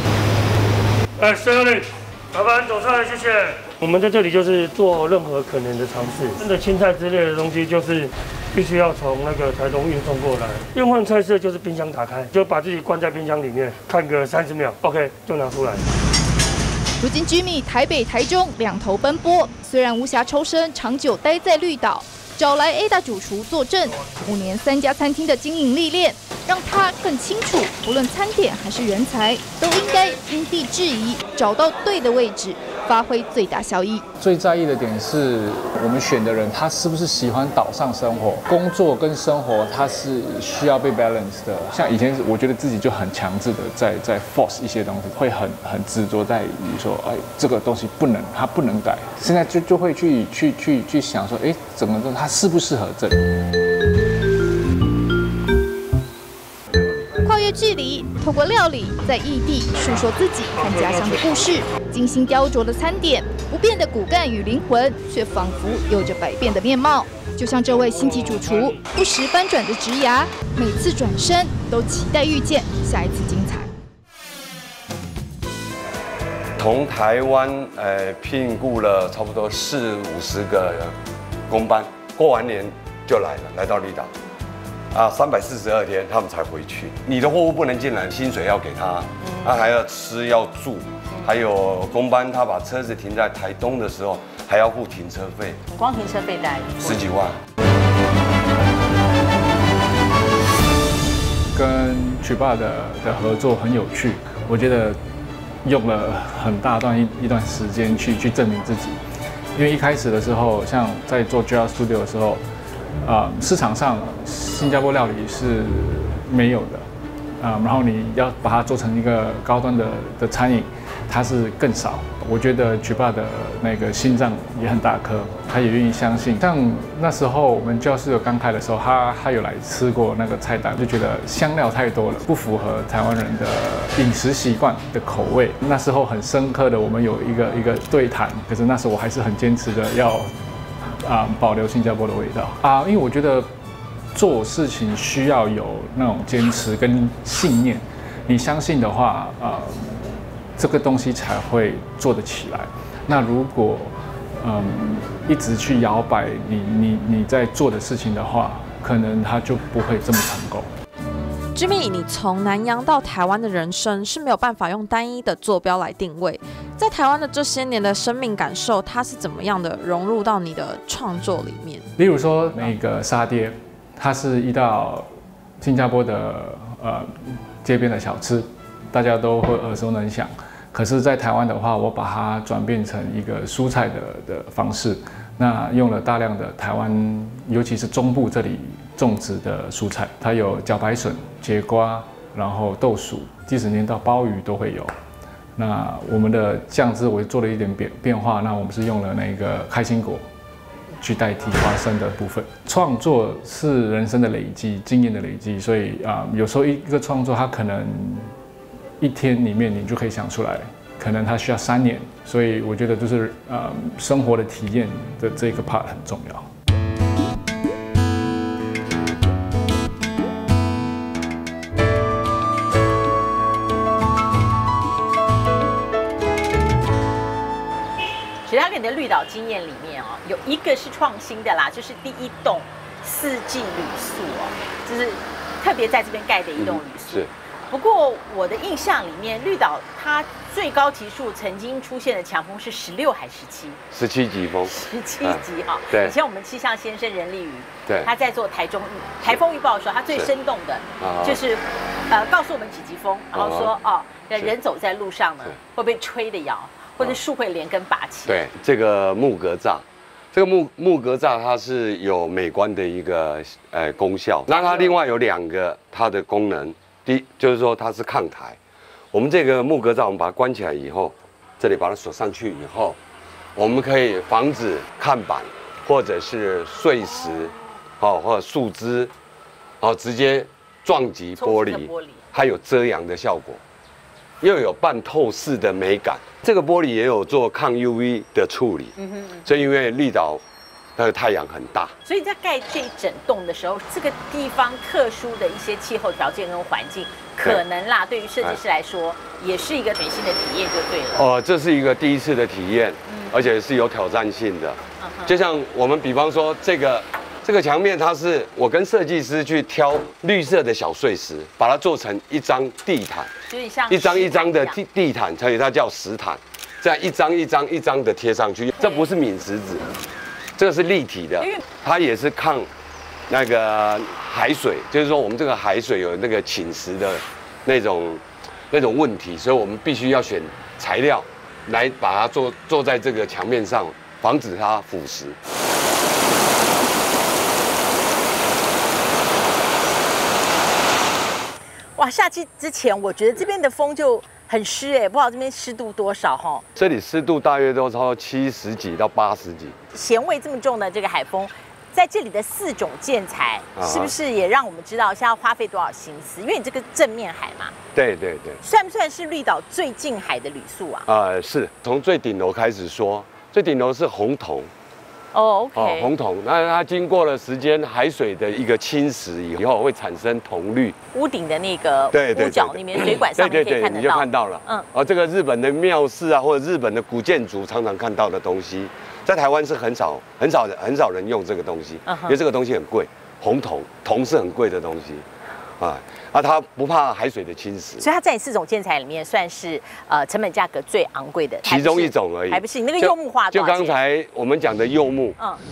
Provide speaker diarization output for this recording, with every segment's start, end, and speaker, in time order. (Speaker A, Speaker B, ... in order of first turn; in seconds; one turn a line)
Speaker A: 1.2-15.8
Speaker B: 17.0-34.0
Speaker C: 34.2-53.2
Speaker B: 57.2-73.7
Speaker A: 60.7-61.1
Speaker A: 68.3-68.7
Speaker D: 76.6-81.0
Speaker D: 81.5-84.1
Speaker D: 84.9-95.6
Speaker E: 89.2-89.5
Speaker E: 95.7-97.0
Speaker D: 96.8-97.4
Speaker C: 101.5-105.0
Speaker C: 105.6-109.0
Speaker C: 109.5-112.4
Speaker C: 113.0-116.9
Speaker C: 117.4-140.3
Speaker C: 141.0-143.5
Speaker C: 144.1-160.7
Speaker F: 161.5-171.8
Speaker C: 171.9-175.1
Speaker C: 175.6-194.9
Speaker C: 195.6-200.2
Speaker C: 201.0-208.3
Speaker C: 209.0-216.5
Speaker E: 228.4-243.8
Speaker D: 236.6-237.3
Speaker D: 243.9-246.1
Speaker E: 244.7-258.4
Speaker D: 251.0-251.4
Speaker D: 253.3-253.7
Speaker D: 258.3-268.6
Speaker E: 264.6-264.9
Speaker D: 269.1-273.0
Speaker D: 273.6-279.1
Speaker D: 279.8-283.6
Speaker E: 281.4-282.2
Speaker D: 284.4-290.4
Speaker E: 289.0-289.4
Speaker D: 290.9-291.9
Speaker E: 292.1-301.2
Speaker D: 301.1-313.3
Speaker E: 303.1-303.3
Speaker E: 305.0-305.3
Speaker E: 313.5-314.8
Speaker D: 313.9-319.9
Speaker D: 320.6-322.7
Speaker D: 323.3-335.4
Speaker E: 342.0-346.6
Speaker D: 346.8-349.8
Speaker E: 349.9-357.7
Speaker D: 353.8-354.1
Speaker D: 357.9-358.6
Speaker E: 358.6-361.1
Speaker D: 361.1-364.7
Speaker E: 365.3-366.1
Speaker D: 365.7-370.9
Speaker E: 371.1-374.9
Speaker D: 372.1-385.3
Speaker E: 382.1-382.4
Speaker D: 385.8-388.1
Speaker E: 388.0-393.9
Speaker D: 391.6-395.4